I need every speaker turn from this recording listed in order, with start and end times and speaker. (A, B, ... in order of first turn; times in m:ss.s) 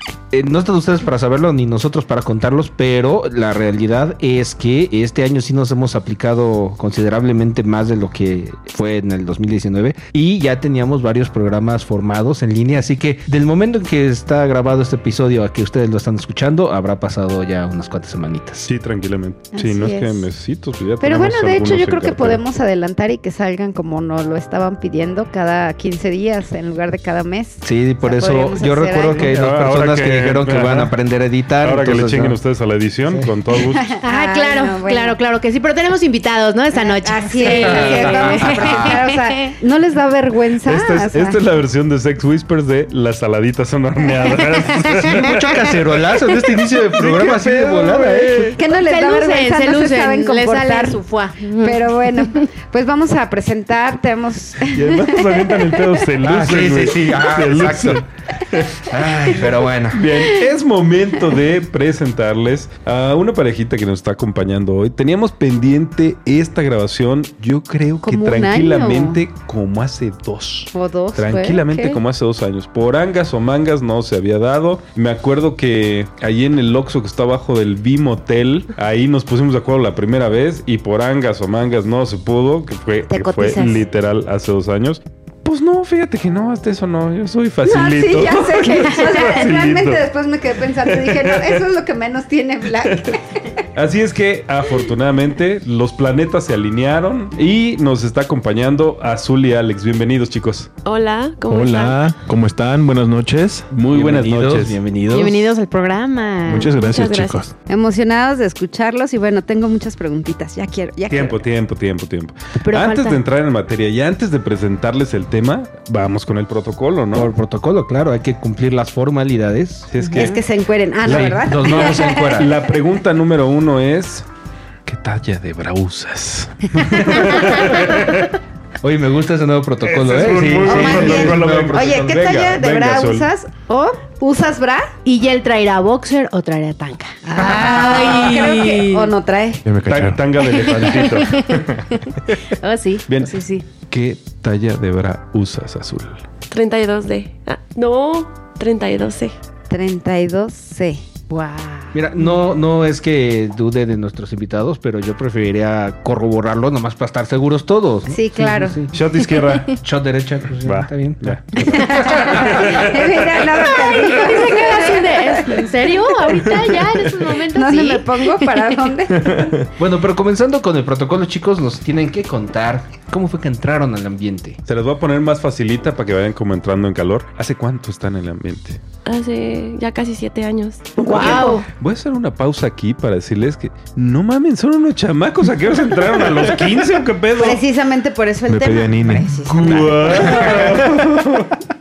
0:00.3-0:18.7 A
0:18.7-0:22.4 B
0:19.5-0:20.2 C
0:21.0-0:29.4 C
0:27.6-0:32.4 A
0:29.1-0:30.9 B
0:31.6-0:34.0 B
0:33.7-0:35.2 C
0:34.0-0:39.5 D
0:36.7-0:41.4 C
0:37.4-0:39.0 A
0:40.6-0:46.0 B
0:44.9-0:48.6 A
0:46.7-0:48.6 B
0:48.5-0:56.1 C
0:48.7-0:51.8 D
0:54.7-0:58.9 B
0:56.2-0:58.0 A
0:58.7-1:00.2 A
0:59.5-1:30.0 B
1:08.0-1:09.2 C
1:10.7-1:12.0 C
1:23.1-1:23.8 C
1:27.6-1:33.6 C
1:30.8-1:31.6 B
1:33.8-1:40.7 B
1:40.8-1:42.1 E
1:41.5-1:43.7 F
1:43.7-1:44.8 B
1:43.9-1:45.5 A
1:45.1-1:46.7 D
1:46.4-1:47.5 F
1:46.6-1:47.4 E
1:47.7-1:51.4 C
1:51.1-1:57.3 B
1:52.6-1:53.2 D
1:57.1-1:59.9 A
1:59.9-2:00.4 B
2:00.0-2:02.6 C
2:01.0-2:02.6 A
2:01.1-2:04.2 B
2:04.8-2:08.3 B
2:08.8-2:12.3 A
2:09.8-2:13.3 B
2:10.6-2:14.9 C
2:15.0-2:19.1 D
2:17.4-2:19.6 C
2:17.4-2:17.8 A
2:19.6-2:20.2 F
2:19.8-2:21.6 B
2:20.6-2:21.7 D
2:22.6-2:23.7 D
2:23.1-2:26.2 B
2:26.5-2:29.4 E
2:29.7-2:31.0 C
2:31.3-2:32.0 D
2:31.9-2:38.9 A
2:38.1-2:39.7 C
2:38.9-2:39.8 B
2:39.8-2:42.8 A
2:40.6-2:43.4 B
2:41.6-2:46.6 C
2:43.7-2:48.9 D
2:47.2-2:49.5 C
2:49.3-2:49.6 B
2:49.8-2:54.6 A
2:54.7-2:58.8 B
2:59.0-3:01.6 E
3:01.0-3:01.6 C
3:01.1-3:01.6 D
3:01.2-3:07.6 B
3:07.4-3:10.7 C
3:08.5-3:10.8 F
3:09.3-3:11.6 B